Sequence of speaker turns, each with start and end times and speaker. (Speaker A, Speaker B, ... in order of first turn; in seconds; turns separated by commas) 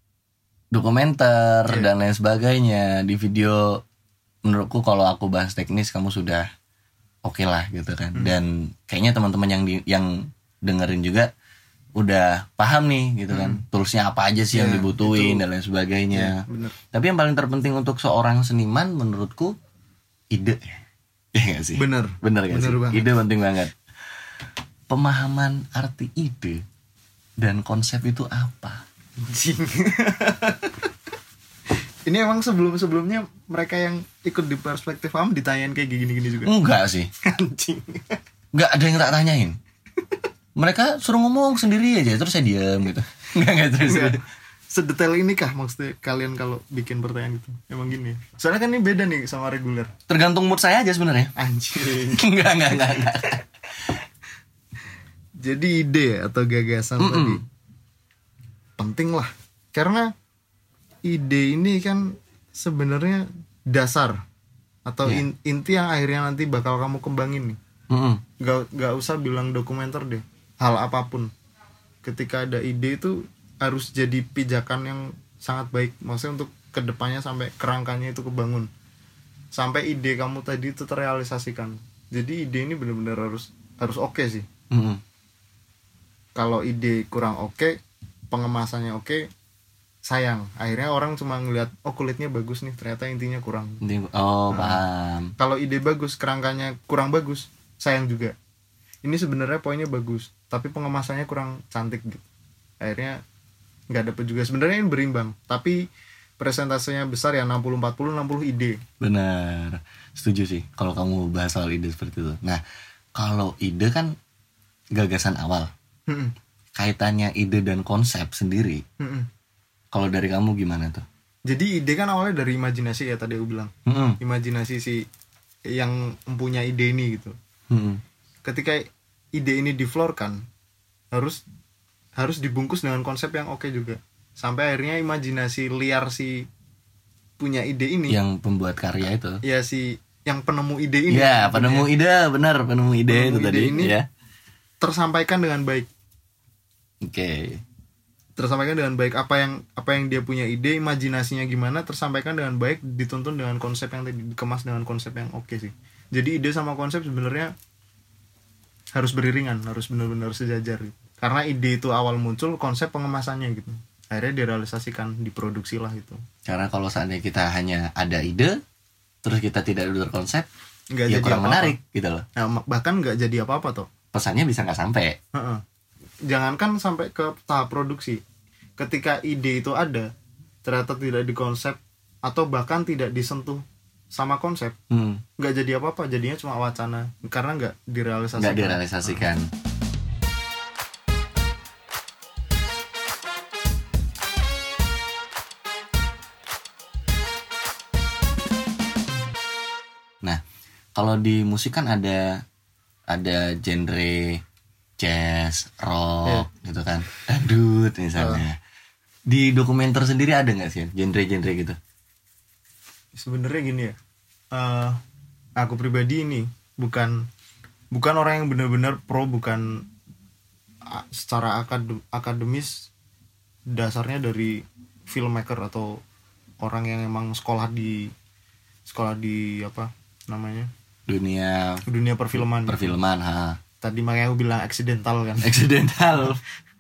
Speaker A: 0.7-3.8, Speaker A: 4.4-6.5, Speaker A: 7.2-11.3, Speaker A: 12.0-19.6, Speaker B: 13.3-13.6, Speaker B: 14.5-15.4, Speaker B: 16.1-16.8, Speaker A: 20.3-20.8, Speaker A: 21.3-23.7, Speaker B: 21.8-23.2, Speaker A: 24.9-26.6, Speaker A: 27.4-28.8, Speaker B: 29.2-30.8, Speaker B: 32.1-36.5, Speaker A: 36.5-37.1, Speaker B: 37.2-38.2, Speaker A: 38.5-39.6, Speaker A: 40.6-44.2, Speaker B: 43.8-44.2, Speaker B: 44.7-49.9, Speaker A: 50.1-51.3, Speaker B: 51.4-53.3, Speaker A: 51.9-53.4, Speaker B: 55.4-57.4, Speaker A: 57.0-57.4, Speaker B: 58.8-60.1, Speaker B: 61.0-64.2, Speaker B: 64.9-67.6, Speaker A: 67.9-68.2, Speaker B: 68.4-71.3, Speaker B: 72.0-78.7, Speaker B: 79.5-84.5, Speaker A: 84.7-85.0, Speaker B: 86.4-87.8, Speaker B: 88.3-89.3, Speaker B: 90.1-93.8, Speaker A: 93.8-95.3, Speaker B: 94.5-94.8, Speaker B: 95.4-98.3, Speaker B: 99.0-102.2, Speaker B: 102.8-103.2, Speaker B: 103.9-105.8, Speaker B: 106.4-108.8, Speaker A: 109.0-112.6, Speaker A: 113.2-114.1, Speaker A: 114.9-115.7, Speaker B: 116.1-116.3, Speaker A: 116.8-118.8, Speaker B: 119.0-119.3, Speaker A: 119.9-121.0, Speaker B: 121.5-125.0, Speaker A: 123.9-124.2, Speaker B: 125.7-127.3, Speaker A: 127.7-128.0, Speaker B: 128.4-130.4, Speaker B: 131.1-131.4, Speaker B: 132.2-136.5, Speaker B: 137.4-138.2, Speaker A: 138.1-139.4, Speaker B: 139.4-141.9, Speaker A: 141.1-144.1, Speaker B: 143.1-144.0, Speaker B: 144.8-145.9, Speaker A: 147.0-147.6, Speaker B: 148.4-157.5, Speaker B: 158.9-166.2, Speaker A: 166.5-168.6, Speaker A: 169.2-170.5, Speaker B: 170.9-171.8, Speaker A: 171.1-172.3, Speaker B: 172.4-173.9, Speaker A: 174.1-175.2, Speaker B: 175.3-175.6, Speaker B: 176.3-178.2, Speaker B: 178.8-180.1, Speaker B: 180.6-184.8, Speaker A: 184.9-185.2, Speaker B: 185.4-189.2, Speaker A: 188.4-189.5, Speaker A: 200.9-202.4, Speaker A: 203.1-204.4, Speaker A: 205.0-208.6, Speaker B: 208.2-208.4, Speaker A: 209.3-211.8, Speaker B: 213.2-214.0, Speaker B: 214.5-215.0, Speaker B: 215.6-217.3, Speaker B: 217.9-219.8, Speaker B: 220.9-222.9, Speaker B: 223.7-226.0, Speaker B: 226.6-228.1, Speaker B: 228.9-230.7, Speaker A: 231.1-231.8, Speaker B: 231.9-232.9, Speaker A: 232.3-233.6, Speaker B: 233.8-235.6, Speaker A: 235.4-236.4